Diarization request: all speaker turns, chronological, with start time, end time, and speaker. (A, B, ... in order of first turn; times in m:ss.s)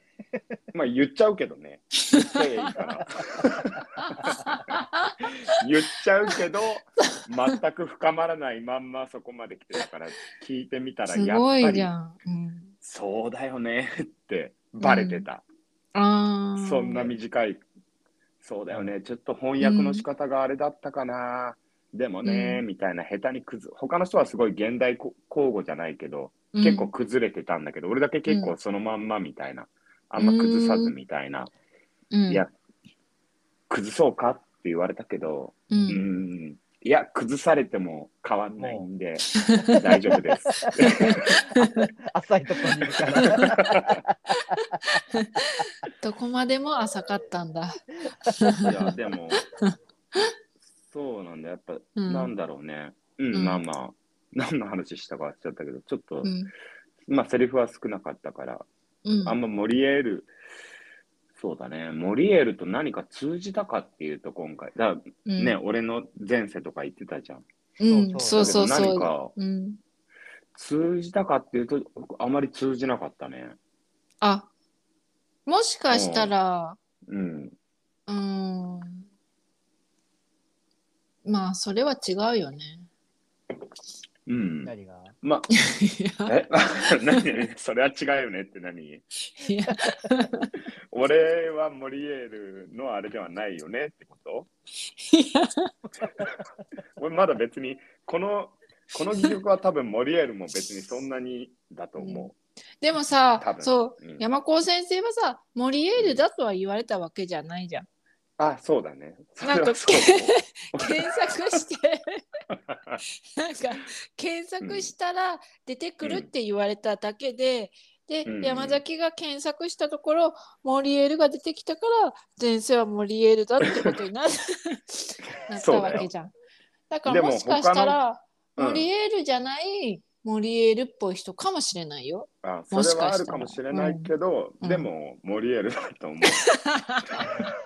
0:00.7-0:11.9 A
0:02.1-0:02.7 B
0:04.0-0:05.1 B
0:11.1-0:12.7 B
0:12.8-0:15.4 A
0:14.8-0:15.2 B
0:15.9-0:17.1 B
0:16.6-0:17.6 A
0:18.4-0:31.5 A
0:19.6-0:20.0 B
0:22.2-0:22.6 B
0:26.5-0:26.9 B
0:28.3-0:28.5 B
0:30.2-0:30.9 B
0:32.1-0:32.4 B
0:33.7-0:41.4 A
0:35.7-0:36.0 B
0:35.7-0:36.0 C
0:38.6-0:38.9 C
0:39.4-0:39.8 B
0:40.8-0:41.8 B
0:41.6-0:44.2 C
0:42.9-0:44.0 A
0:44.4-0:50.3 B
0:48.6-0:49.4 A
0:50.9-0:56.3 A
0:52.0-0:52.3 B
0:53.3-0:53.6 B
0:56.2-0:56.5 B
0:57.1-0:58.7 A
0:59.0-0:59.4 B
0:59.2-1:00.3 A
1:01.4-1:07.4 A
1:05.2-1:05.5 B
1:07.8-1:09.8 B
1:07.9-1:09.0 C
1:08.2-1:09.3 A
1:10.5-1:13.6 A
1:14.2-1:14.5 B
1:15.4-1:16.8 B
1:15.9-1:16.3 A
1:17.1-1:17.5 A
1:18.1-1:19.1 B
1:21.2-1:22.9 B
1:24.3-1:25.5 A
1:24.6-1:25.2 C
1:25.5-1:26.3 B
1:26.2-1:29.0 A
1:26.9-1:27.3 B
1:29.3-1:30.5 B
1:30.9-1:34.5 A
1:35.0-1:35.7 B
1:37.0-1:42.3 A
1:42.0-1:42.3 B
1:42.8-1:47.9 B
1:43.4-1:44.2 A
1:46.0-1:46.2 A
1:48.4-1:51.6 A
1:49.4-1:52.2 B
1:52.7-1:53.0 A
1:53.4-2:06.3 B
1:54.6-1:54.9 A
1:56.0-1:56.3 A
1:58.2-1:58.8 A
2:05.5-2:06.1 A
2:06.9-2:14.9 B
2:07.0-2:08.0 A
2:08.6-2:08.9 A
2:12.4-2:16.5 A
2:16.5-2:17.4 B
2:17.1-2:17.4 A